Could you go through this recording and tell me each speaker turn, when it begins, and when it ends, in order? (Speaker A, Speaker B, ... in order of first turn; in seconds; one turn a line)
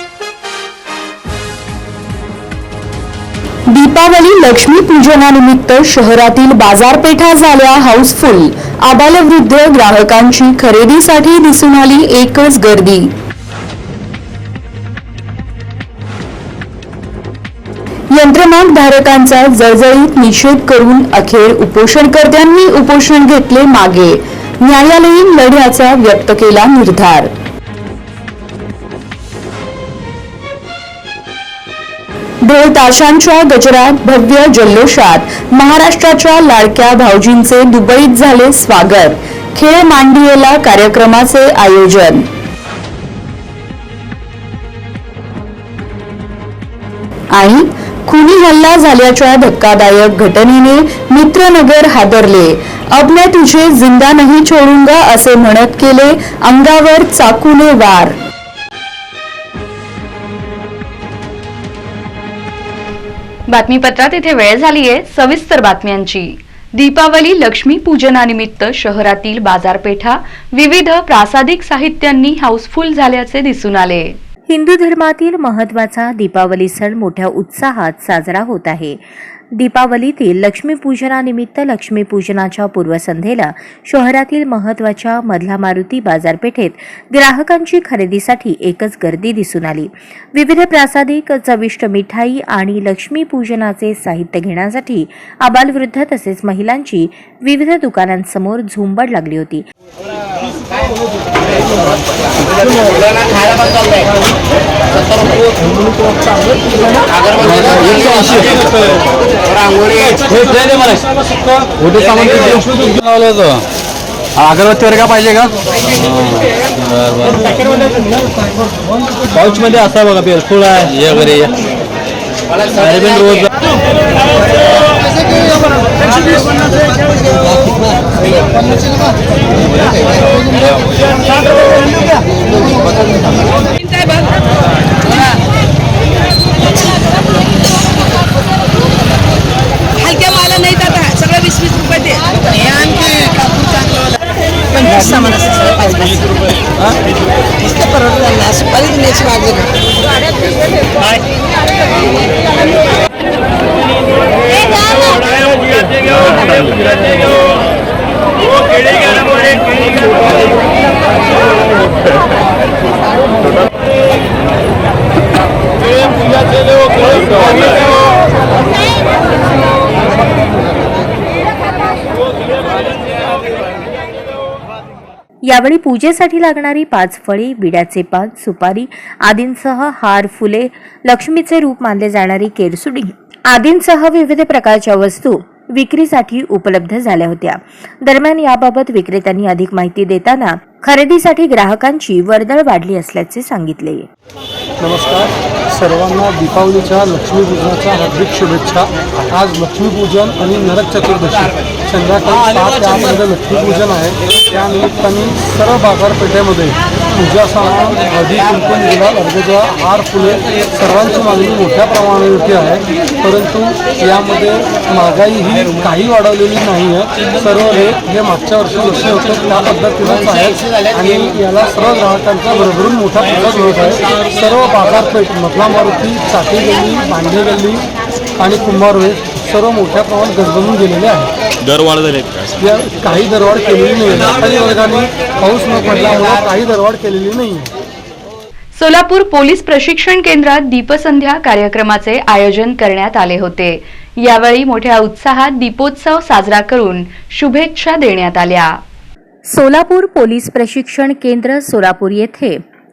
Speaker A: 3.7-13.1
Speaker A: 18.1-27.3
Speaker A: 32.4-42.3
Speaker A: 47.3-58.2
Speaker B: 63.5-74.2
Speaker C: 74.5-79.0
Speaker C: 79.5-99.7
Speaker D: 107.4-108.8
Speaker D: 110.2-111.0
Speaker D: 111.8-113.6
Speaker D: 114.4-117.8
Speaker D: 119.3-121.6
Speaker D: 122.7-123.5
Speaker E: 133.8-134.4
Speaker E: 136.6-137.5
Speaker E: 140.0-143.6
Speaker E: 144.7-146.1
Speaker E: 147.6-149.6
Speaker C: 175.4-194.1
Speaker F: 194.8-227.8
Speaker F: 228.4-231.3
Speaker D: 231.7-232.3
Speaker F: 232.6-237.7
Speaker B: 238.8-248.8
Speaker C: 249.4-252.6